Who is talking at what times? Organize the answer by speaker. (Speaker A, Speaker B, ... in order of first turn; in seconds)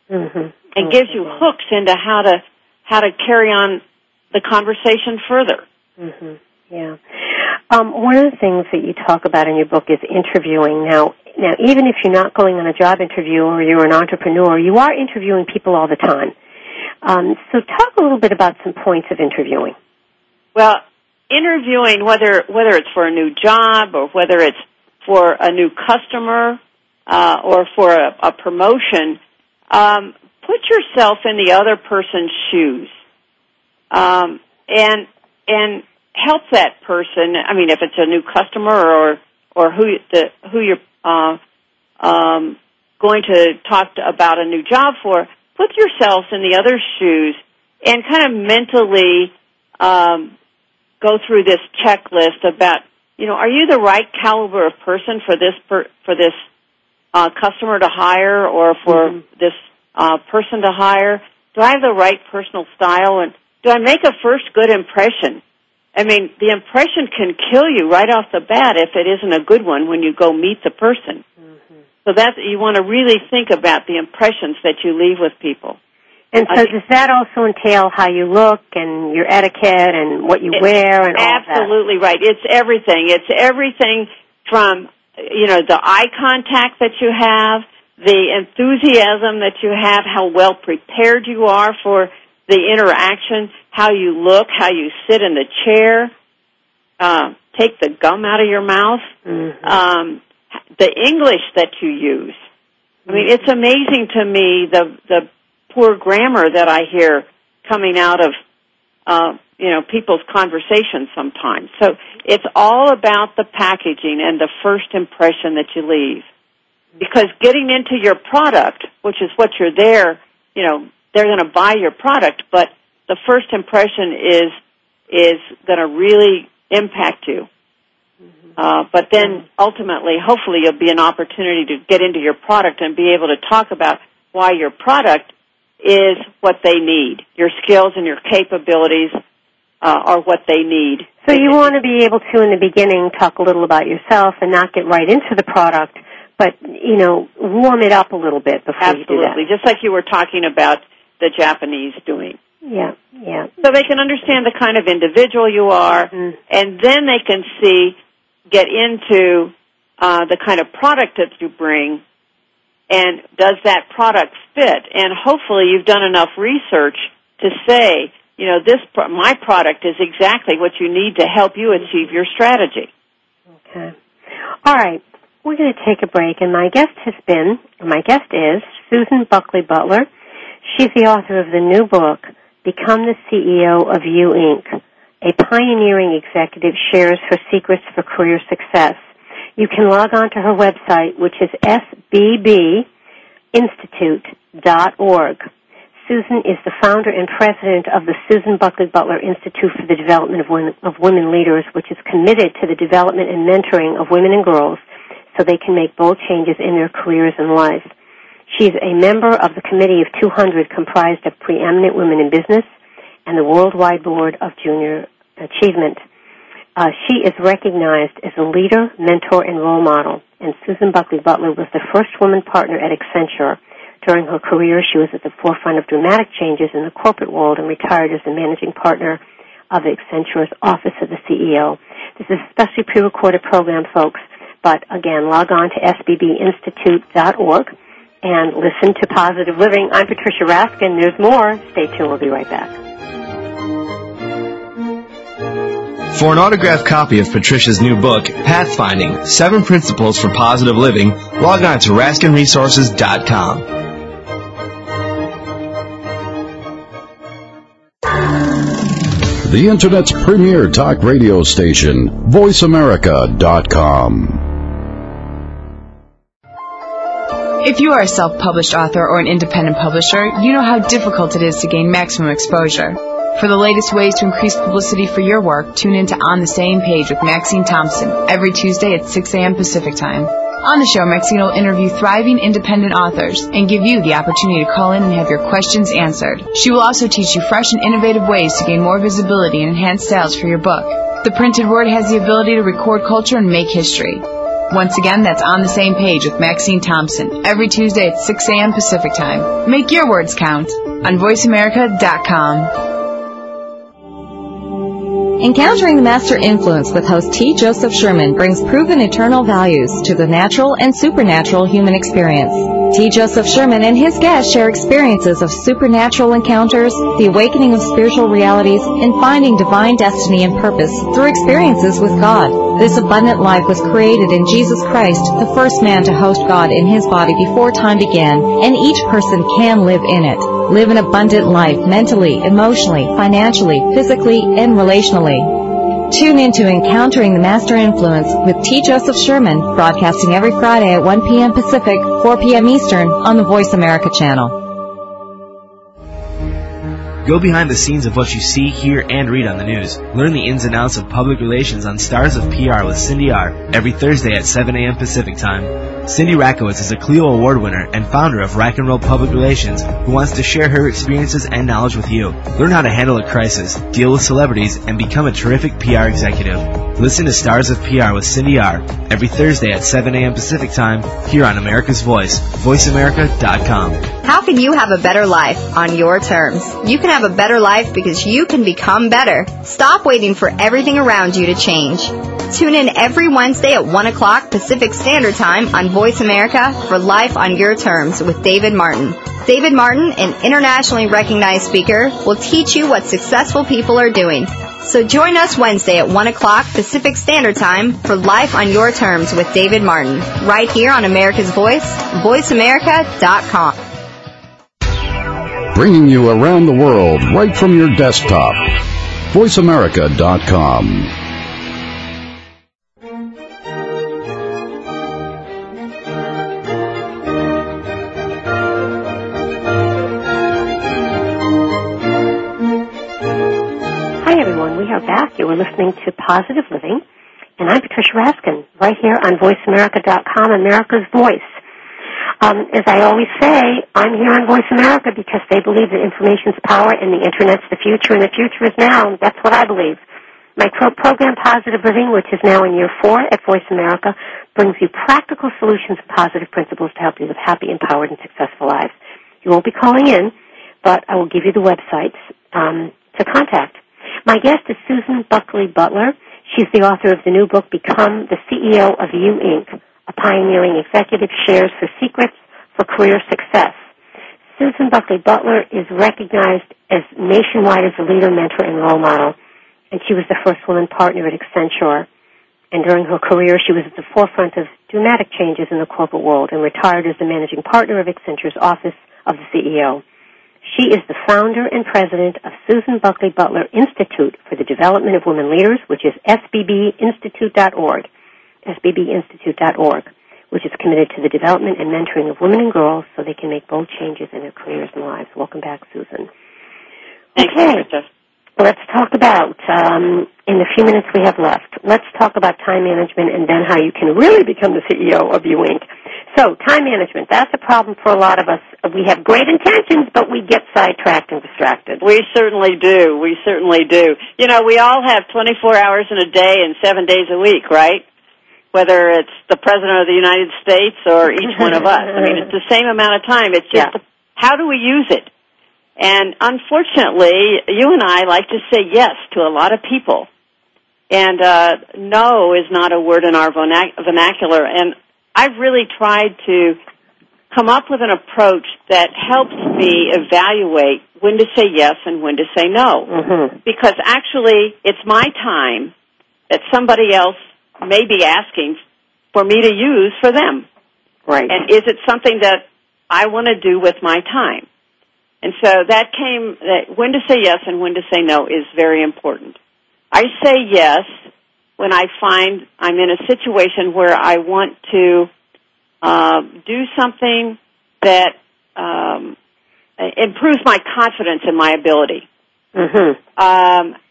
Speaker A: 0.1-1.4, 6.0-16.3, 17.0-19.8, 76.3-81.7, 99.3-99.6, 141.2-149.4, 152.6-153.5, 173.7-173.9, 174.6-180.1, 180.7-189.0, 189.6-192.9, 193.5-195.4, 196.0-204.8, 205.3-207.9, 208.5-212.7, 213.2-216.0, 216.8-242.7, 424.2-427.0, 427.6-431.6, 432.4-440.0, 440.6-463.8, 464.6-469.4, 469.9-472.1, 472.7-480.0, 480.6-488.1, 488.6-496.3, 497.4-497.9, 498.6-512.0, 543.1-543.5, 551.2-551.6, 572.7-573.2
Speaker B: 0.7-3.8, 4.3-5.6, 20.5-29.2, 29.7-32.9, 33.9-41.4, 42.0-50.3, 51.0-56.4, 57.1-65.4, 66.0-71.2, 72.0-75.8, 80.5-96.1, 97.0-99.1, 99.6-100.2, 100.8-102.4, 103.1-108.3, 109.0-116.2, 117.0-124.5, 125.1-127.5, 128.6-135.3, 135.8-139.2, 139.8-141.7, 148.8-152.3, 153.6-157.9, 158.5-162.0, 162.9-172.9, 497.4-498.1, 512.0-518.0, 518.7-525.3, 526.0-530.3, 531.1-536.8, 537.5-543.1, 543.6-545.9, 546.5-548.8, 549.3-550.6, 551.5-554.6, 555.4-559.6, 560.1-561.1, 561.8-565.3, 566.0-569.4, 570.0-572.2, 573.4-573.9
Speaker C: 246.1-253.7
Speaker D: 259.4-264.5, 405.7-411.1
Speaker E: 267.6-302.8
Speaker F: 305.4-344.7
Speaker G: 347.2-374.1
Speaker H: 374.2-403.8